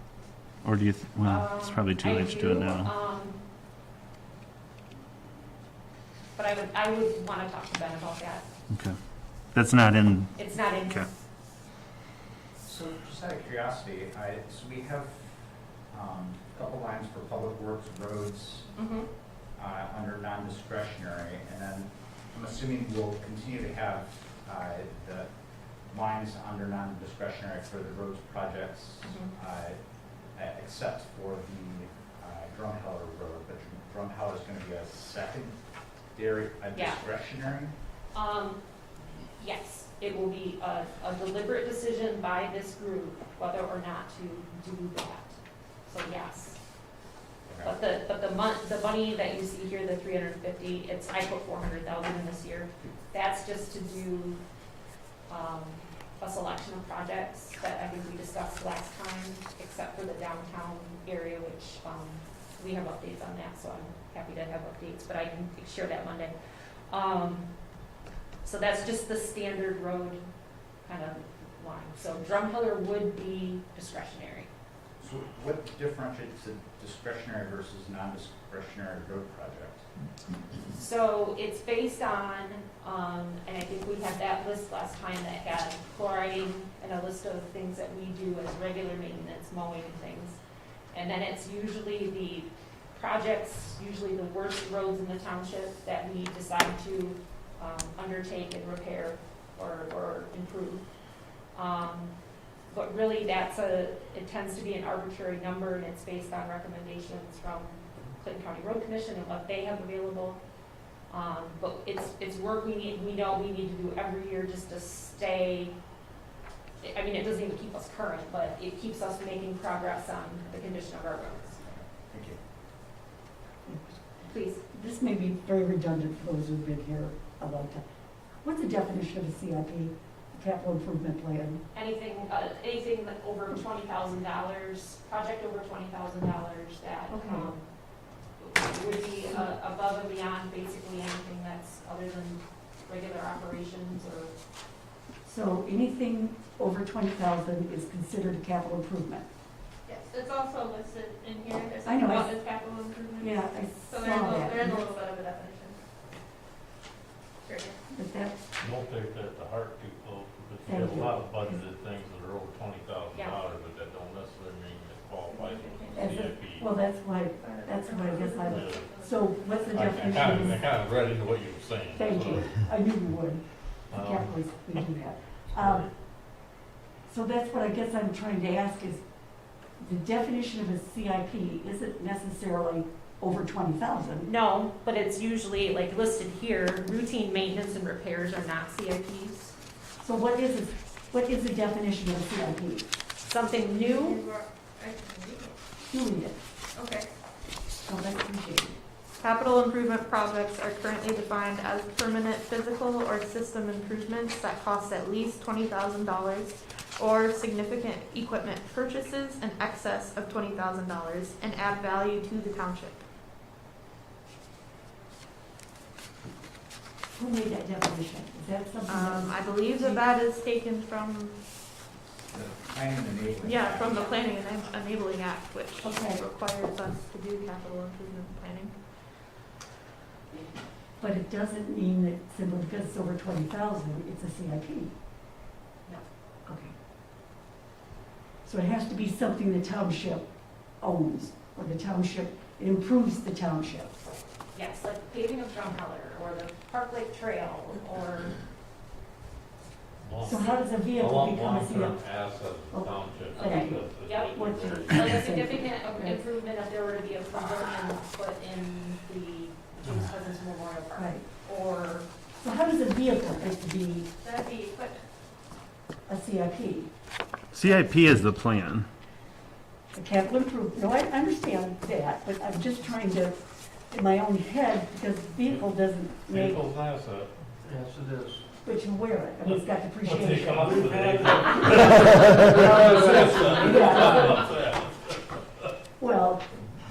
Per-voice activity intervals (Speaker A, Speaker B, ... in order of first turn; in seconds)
Speaker A: 0.6-2.9, 8.7-9.0, 9.5-11.1, 267.5-268.9
Speaker B: 1.2-3.4, 6.4-8.5, 10.4-11.1, 29.1-29.3, 36.7-37.0, 38.1-38.6, 39.4-46.6, 47.6-54.4, 55.3-66.3, 66.9-67.5, 68.4-70.2, 70.8-74.5, 80.7-90.4, 90.9-100.8, 101.5-102.2, 102.7-110.4, 111.1-115.8, 116.8-121.7, 124.2-124.6, 131.7-137.7, 138.4-144.3, 184.2-189.6, 193.2-194.2, 244.5-248.3, 253.3-262.1
Speaker C: 12.6-15.3, 15.9-18.7, 19.6-25.3, 25.9-29.8, 30.4-35.6, 36.1-37.7, 47.5-47.7, 75.0-79.8, 122.1-122.4, 222.3-224.2
Speaker D: 123.7-124.0, 124.7-127.8, 128.4-131.6, 145.2-149.3, 151.8-152.4, 153.2-154.9, 157.9-158.4, 160.7-161.6, 165.9-170.7, 171.9-175.9, 177.1-179.0, 179.8-184.3, 190.0-192.9, 195.9-196.4, 197.8-198.8, 217.1-220.1, 225.8-226.2, 231.0-234.9, 236.5-236.7, 238.4-240.3, 240.8-244.1, 250.2-252.0, 252.7-256.2, 260.9-261.2, 262.4-264.1, 266.1-266.9, 269.9-276.6, 278.6-281.1, 282.6-284.4, 286.0-286.5
Speaker E: 137.1-137.5, 149.9-155.8, 157.5-157.8, 165.3-166.0, 167.4-169.2, 193.8-195.5, 196.8-197.1, 199.2-213.0, 218.9-221.4, 223.4-228.8, 264.2-265.0
Speaker F: 158.6-166.7, 168.5-168.9, 169.7-172.6, 173.9-174.6, 175.6-175.9, 250.0-255.4, 276.3-277.3, 279.5-285.7
Speaker G: 277.6-278.4, 280.5-284.0